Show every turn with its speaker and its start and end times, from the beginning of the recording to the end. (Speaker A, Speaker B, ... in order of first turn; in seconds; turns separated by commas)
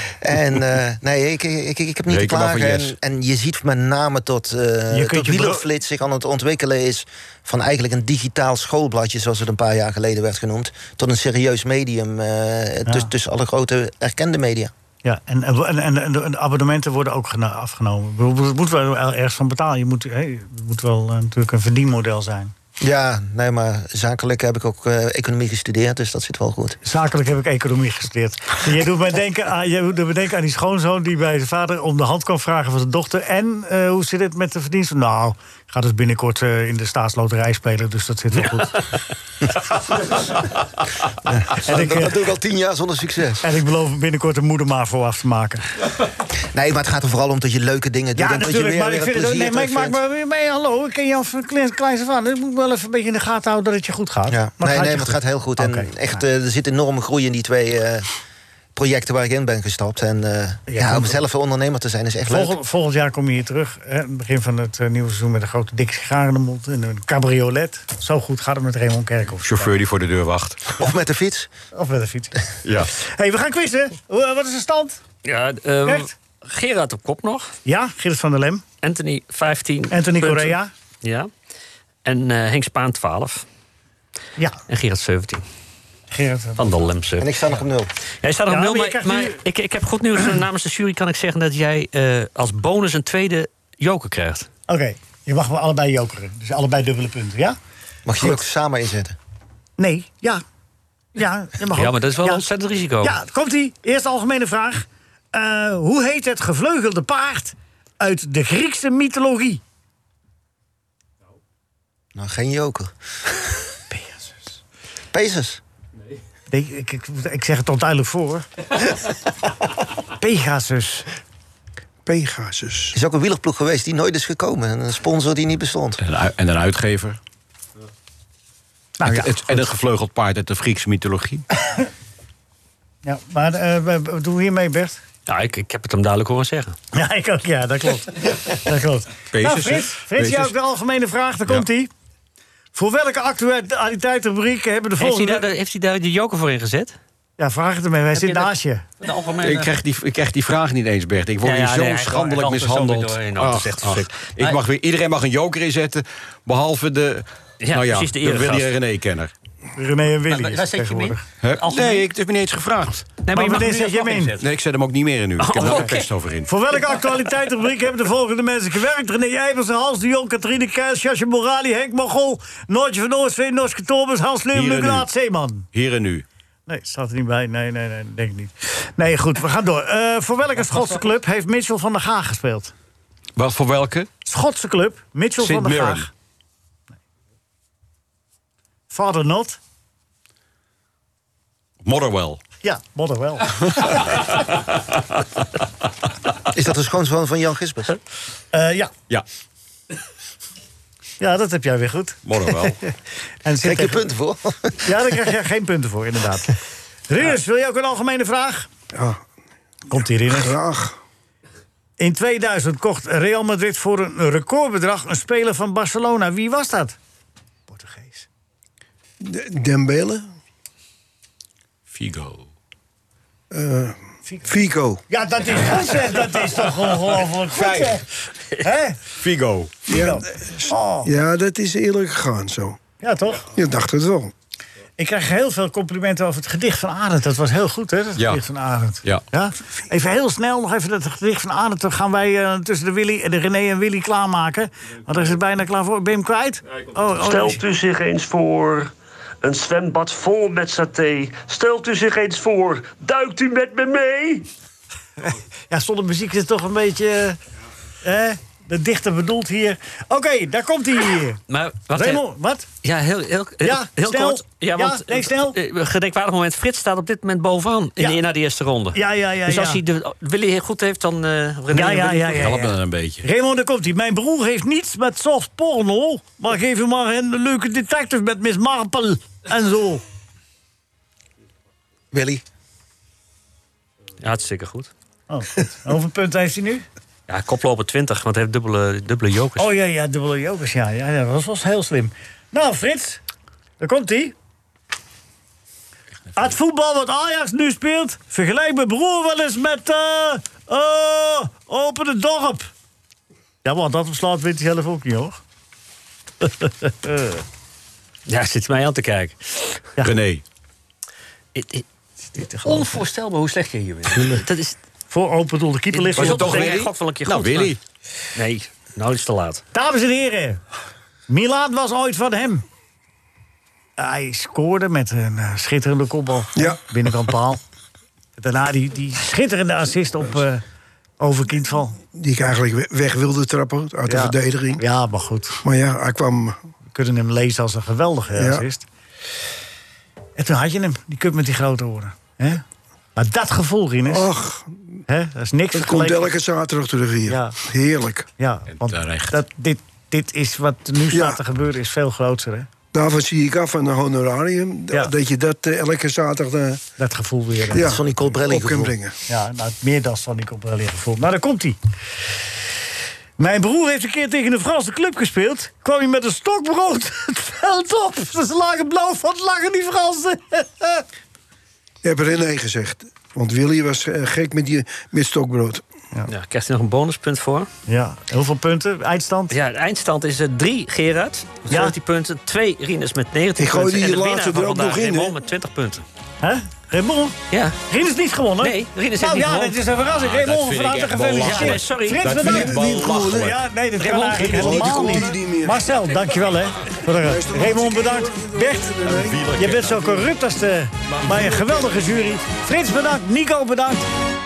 Speaker A: 0.2-14.7, Speaker B: 2.1-2.9, Speaker C: 4.9-5.7, Speaker C: 15.0-22.5, Speaker A: 22.8-26.8, Speaker C: 26.8-38.8, Speaker A: 41.5-43.4, Speaker C: 41.6-42.3, Speaker C: 43.4-45.7, Speaker A: 46.5-50.0, Speaker C: 48.1-56.2, Speaker A: 54.3-58.1, Speaker A: 58.7-62.6, Speaker C: 60.7-61.2, Speaker C: 62.3-69.5, Speaker B: 69.4-70.6, Speaker A: 70.8-71.5, Speaker C: 71.7-75.0, Speaker B: 72.6-72.9, Speaker D: 75.2-77.5, Speaker C: 75.8-76.1, Speaker C: 77.6-78.6, Speaker D: 78.8-81.3, Speaker C: 79.9-80.7, Speaker D: 82.0-83.4, Speaker D: 84.7-85.4, Speaker C: 86.1-86.7, Speaker D: 86.6-87.5, Speaker A: 87.2-87.9, Speaker D: 88.2-94.5, Speaker C: 88.5-89.4, Speaker C: 94.7-97.6, Speaker A: 98.0-99.2, Speaker C: 99.8-100.4, Speaker C: 101.2-102.4, Speaker D: 101.7-103.2, Speaker C: 103.0-109.6, Speaker A: 112.1-112.9, Speaker C: 113.9-114.6, Speaker A: 115.1-115.6, Speaker C: 116.5-118.8, Speaker C: 120.1-121.1, Speaker E: 122.0-123.0, Speaker A: 122.9-126.0, Speaker B: 126.0-127.2, Speaker C: 129.0-129.7, Speaker B: 129.0-131.5, Speaker C: 133.0-135.0, Speaker D: 135.3-136.8, Speaker C: 136.9-141.9, Speaker B: 139.3-140.5, Speaker C: 142.7-145.4, Speaker D: 145.0-146.9, Speaker C: 147.4-148.9, Speaker D: 148.1-149.7, Speaker B: 149.4-159.3, Speaker D: 151.4-154.6, Speaker D: 157.6-158.7, Speaker C: 159.8-161.2, Speaker D: 160.3-162.1, Speaker B: 161.4-163.2, Speaker D: 163.2-164.4, Speaker C: 163.3-164.4, Speaker B: 164.4-166.5, Speaker D: 165.4-166.1, Speaker C: 165.6-165.9, Speaker C: 166.4-175.7, Speaker B: 174.5-175.1, Speaker B: 175.7-176.2, Speaker C: 176.7-182.7, Speaker B: 183.3-184.1, Speaker C: 184.2-186.1, Speaker B: 185.4-186.1, Speaker C: 188.9-189.6, Speaker B: 191.8-192.4, Speaker C: 192.6-194.2, Speaker A: 196.5-197.9, Speaker C: 198.5-198.9, Speaker C: 201.2-204.0, Speaker B: 202.2-202.8, Speaker A: 203.6-204.9, Speaker C: 204.8-206.5, Speaker C: 207.1-208.7, Speaker E: 208.9-209.2, Speaker C: 209.9-210.5, Speaker E: 210.3-211.0, Speaker C: 212.0-217.0, Speaker C: 217.7-218.3, Speaker E: 219.2-220.2, Speaker B: 221.9-222.5, Speaker E: 223.5-225.0, Speaker C: 225.1-228.0, Speaker B: 227.5-228.0, Speaker C: 228.6-229.0, Speaker B: 229.2-229.7, Speaker E: 229.9-232.8, Speaker C: 229.9-231.1, Speaker C: 233.0-233.5, Speaker E: 233.5-234.3, Speaker C: 235.0-247.6, Speaker B: 238.2-238.4, Speaker F: 247.2-254.5, Speaker C: 255.2-257.4, Speaker C: 258.0-261.4, Speaker D: 261.5-262.2, Speaker C: 261.9-262.7, Speaker D: 262.8-272.5, Speaker C: 263.6-265.6, Speaker C: 268.9-269.8, Speaker C: 271.7-280.0, Speaker B: 272.4-273.2, Speaker A: 282.1-282.4, Speaker D: 284.2-284.9, Speaker C: 285.3-286.9, Speaker D: 287.3-289.7, Speaker C: 289.6-293.2, Speaker C: 293.8-294.3, Speaker C: 296.4-302.7, Speaker C: 303.6-305.4, Speaker C: 306.4-307.4, Speaker D: 308.3-309.4, Speaker B: 310.0-310.4, Speaker D: 311.5-311.8, Speaker C: 312.4-313.0, Speaker D: 312.6-314.8, Speaker C: 315.1-316.8, Speaker D: 315.9-317.8, Speaker B: 316.1-317.8, Speaker D: 318.3-319.6, Speaker C: 319.7-320.6, Speaker C: 321.3-322.6, Speaker C: 324.0-327.6, Speaker E: 326.6-326.8, Speaker C: 328.4-330.6, Speaker C: 331.2-332.0, Speaker E: 332.1-334.8, Speaker C: 334.1-335.6, Speaker E: 335.6-336.6, Speaker C: 336.9-338.9, Speaker E: 338.4-338.6, Speaker C: 340.4-342.6, Speaker C: 343.1-344.3, Speaker E: 344.1-345.0, Speaker C: 345.1-346.3, Speaker E: 345.7-348.3, Speaker C: 347.3-347.6, Speaker C: 348.4-352.7, Speaker B: 348.8-349.4, Speaker E: 351.1-351.4, Speaker E: 352.9-356.8, Speaker C: 357.0-357.9, Speaker E: 357.7-359.1, Speaker A: 357.8-358.9, Speaker C: 359.3-361.8, Speaker C: 363.4-371.0, Speaker E: 372.0-375.8, Speaker D: 376.3-377.7, Speaker C: 377.9-379.6, Speaker D: 379.5-386.0, Speaker C: 381.7-381.9, Speaker E: 383.6-385.4, Speaker C: 386.4-399.0, Speaker D: 387.5-387.8, Speaker D: 388.6-389.8, Speaker B: 390.0-393.6, Speaker D: 391.4-392.3, Speaker E: 392.4-393.6, Speaker D: 394.0-395.2, Speaker E: 394.3-395.9, Speaker E: 397.1-399.5, Speaker B: 399.0-400.3, Speaker C: 399.5-404.1